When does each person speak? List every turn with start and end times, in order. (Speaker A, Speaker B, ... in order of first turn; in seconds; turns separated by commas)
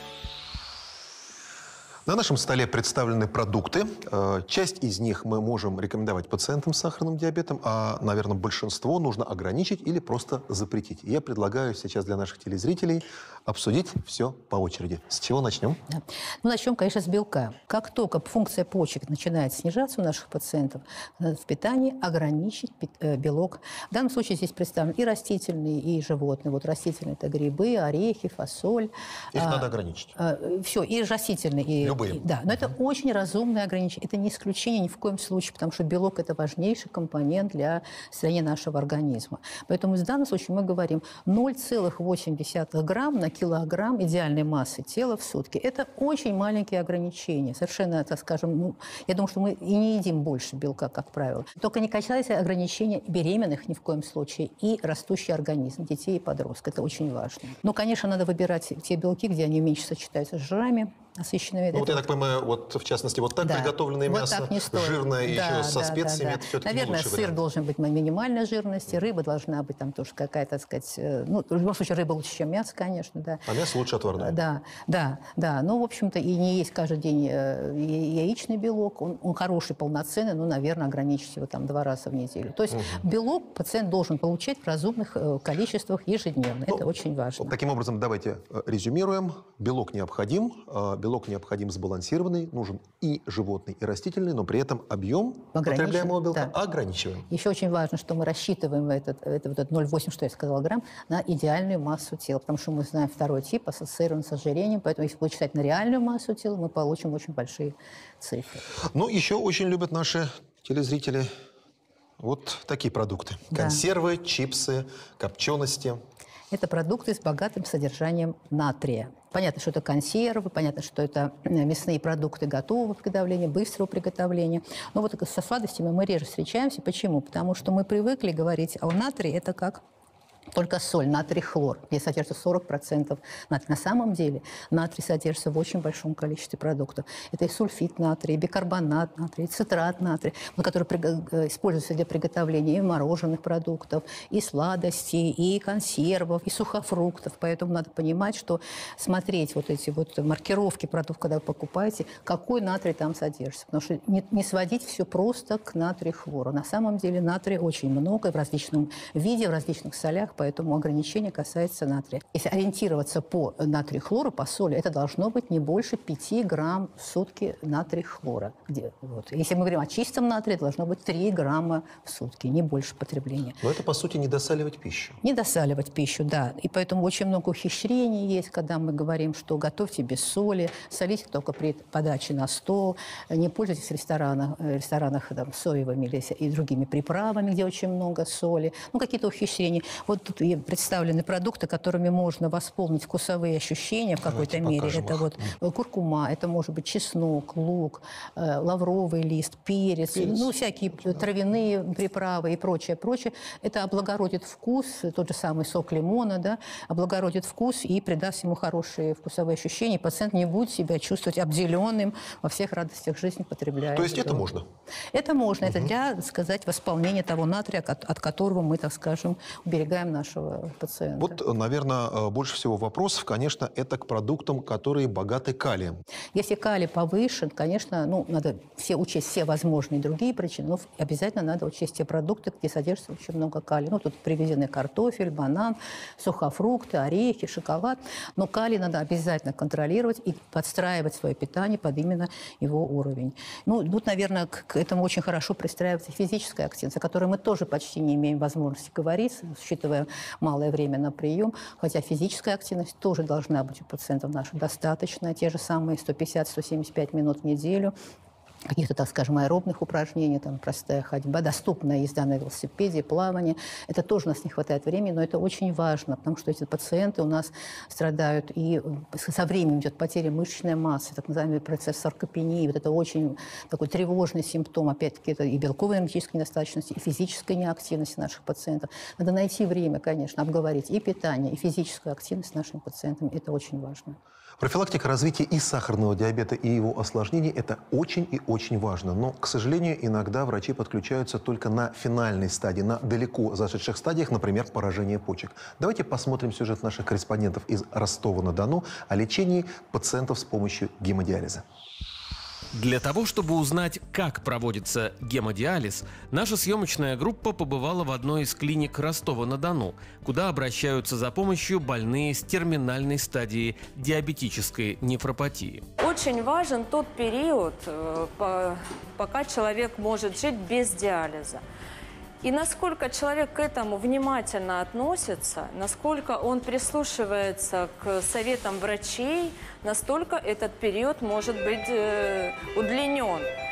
Speaker A: 2.1-15.8, Speaker B: 15.9-62.0, Speaker A: 29.3-30.2, Speaker A: 31.8-32.2, Speaker A: 61.7-67.4, Speaker B: 63.4-73.5, Speaker A: 73.5-74.4, Speaker B: 74.2-87.5, Speaker A: 82.7-83.0, Speaker A: 87.4-97.3, Speaker B: 95.5-96.5, Speaker B: 97.3-108.7, Speaker A: 108.8-111.3, Speaker A: 112.2-116.0, Speaker B: 113.5-113.8, Speaker B: 116.5-129.8, Speaker B: 130.5-173.6, Speaker A: 173.6-175.2, Speaker B: 175.2-214.5, Speaker A: 194.3-195.4, Speaker A: 200.1-200.5, Speaker A: 213.9-214.7, Speaker B: 215.1-221.4, Speaker A: 221.2-226.0, Speaker B: 226.3-257.9, Speaker B: 258.7-284.2, Speaker A: 284.6-301.6, Speaker C: 302.7-315.9, Speaker D: 316.0-321.6, Speaker D: 322.4-333.5